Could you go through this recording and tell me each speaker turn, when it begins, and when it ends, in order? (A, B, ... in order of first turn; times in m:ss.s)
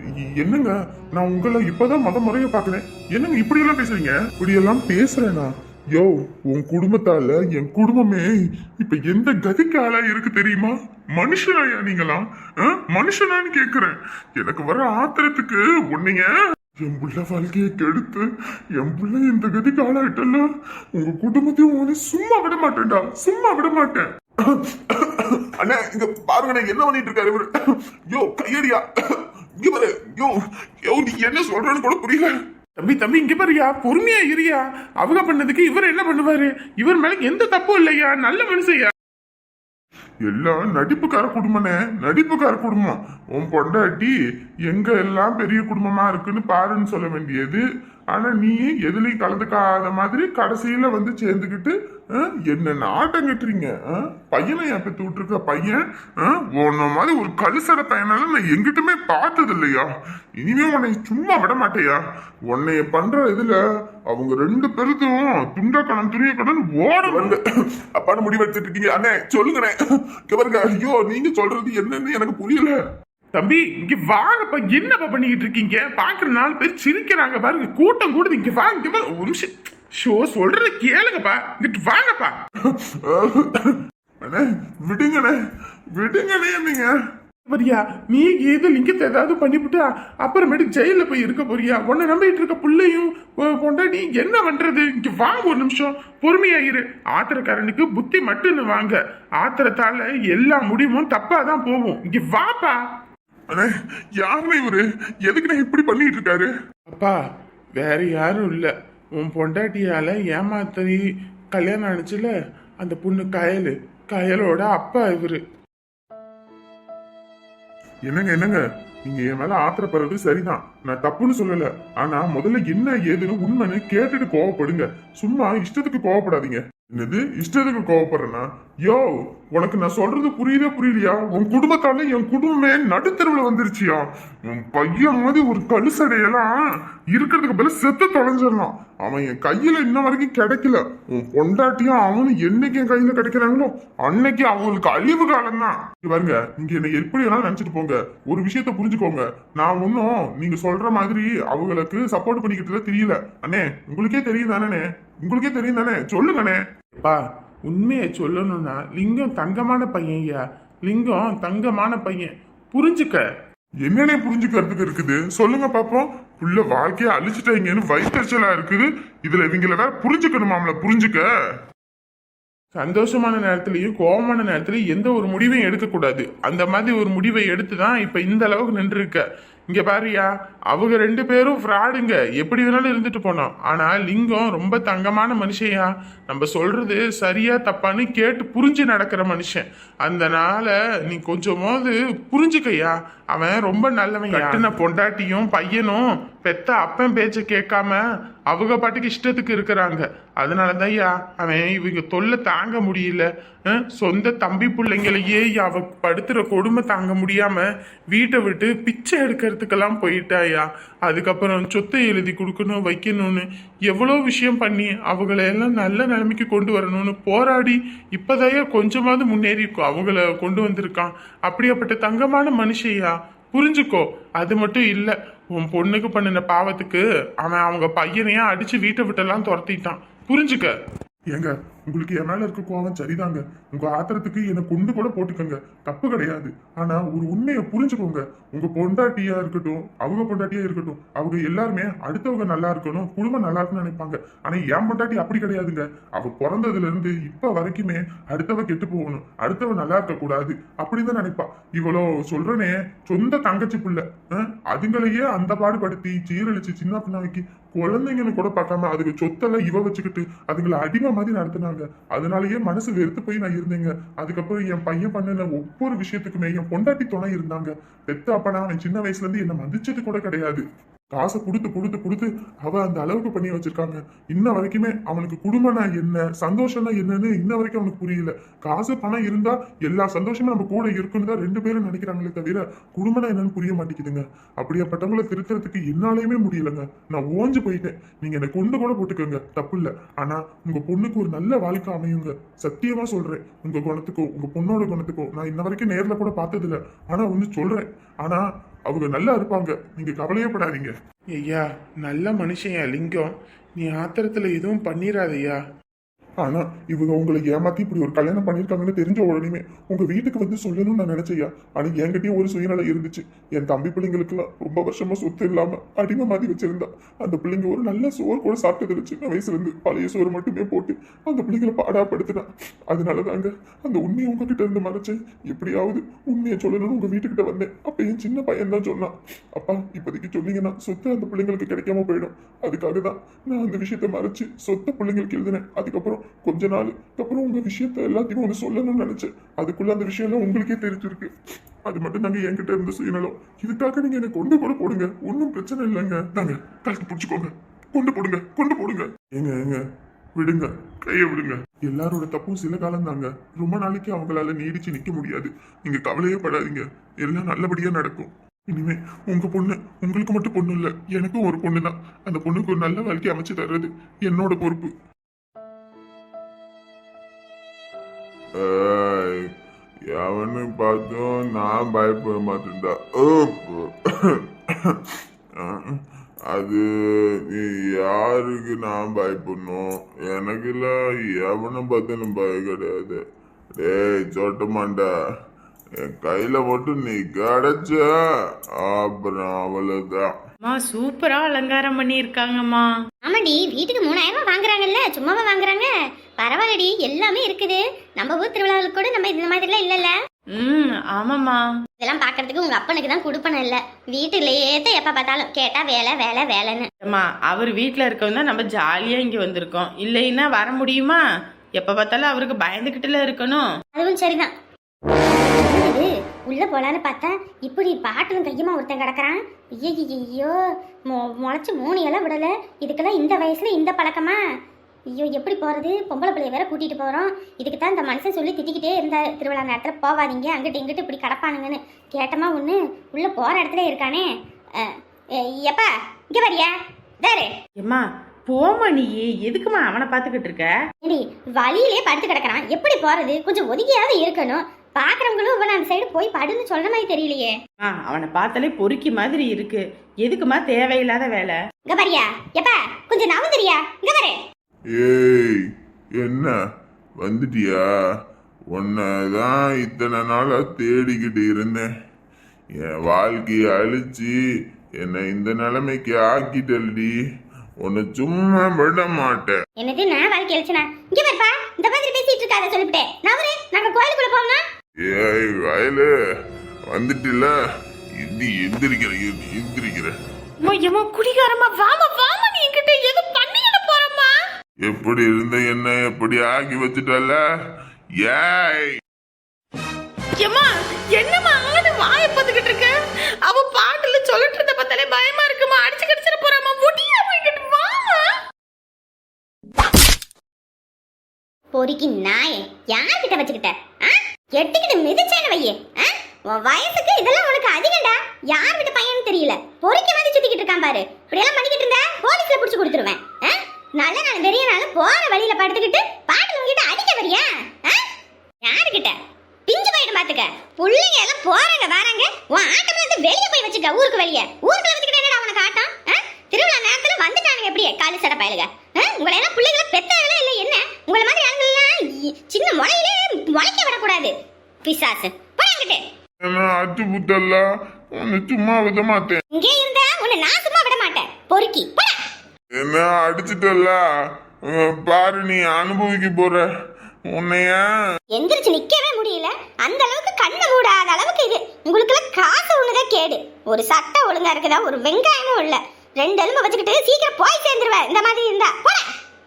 0:00.2-0:08.3 A
0:08.8-0:16.3 A
0:16.8-0:27.5 A
0:28.1-0:32.3 A
0:32.8-0:38.9 B
0:40.2-0:44.1 A
0:44.7-1:03.6 A
1:04.1-1:07.4 A
1:08.0-1:09.8 A
1:10.3-1:12.8 A
1:13.3-1:22.3 B
1:22.7-1:25.4 A
1:25.9-1:26.9 A
1:27.4-1:42.8 B
1:43.5-1:46.5 A
1:46.9-1:47.2 B
1:47.8-1:51.0 B
1:51.5-1:52.3 B
1:52.8-1:55.4 B
1:58.1-2:16.6 A
2:17.1-2:36.6 A
2:37.0-2:43.2 B
2:43.8-2:51.3 A
2:52.8-3:50.7 B
3:51.3-5:00.9 A
5:01.4-5:05.6 B
5:06.4-5:41.3 A
5:41.8-5:49.8 A
5:50.4-6:04.9 A
6:08.6-6:09.3 A
6:10.2-6:13.6 A
6:16.5-6:16.8 C
6:17.6-6:23.2 C
6:18.7-6:19.7 A
6:20.5-6:20.8 A
6:21.7-6:23.1 A
6:23.8-6:25.1 C
6:24.5-6:25.0 A
6:26.2-6:28.1 C
6:28.9-6:30.2 C
6:30.6-6:32.9 D
6:33.2-6:40.1 E
6:40.6-6:41.6 D
6:42.0-6:46.9 E
6:47.0-6:51.2 D
6:51.8-6:53.7 D
6:53.9-6:54.5 E
6:55.5-7:00.6 E
7:01.1-7:04.4 E
7:05.1-7:17.6 E
7:17.8-7:20.7 D
7:21.0-7:27.6 E
7:27.8-7:31.6 D
7:31.9-7:34.4 E
7:35.0-7:35.5 A
7:36.2-7:36.5 A
7:37.2-7:37.8 A
7:38.7-7:41.8 A
7:43.0-7:44.3 A
7:43.1-7:44.0 C
7:45.0-7:47.1 A
7:45.0-7:45.4 C
7:46.1-7:47.1 C
7:47.8-7:49.5 A
7:47.8-7:49.6 C
7:49.8-7:54.6 E
7:55.1-7:56.1 C
7:56.9-7:57.5 C
7:57.0-7:57.4 A
7:58.2-8:00.1 C
8:00.6-8:04.4 D
8:04.9-8:07.4 C
8:06.3-8:07.3 A
8:08.2-8:08.9 C
8:10.4-8:12.9 D
8:13.4-8:18.3 D
8:21.7-8:38.0 E
8:38.6-8:39.2 E
8:39.7-8:54.3 E
8:54.8-8:56.0 E
8:56.4-8:59.4 A
8:59.5-9:02.1 E
9:02.8-9:04.0 A
9:04.7-9:06.6 A
9:06.2-9:06.5 C
9:07.3-9:07.8 A
9:08.3-9:19.0 E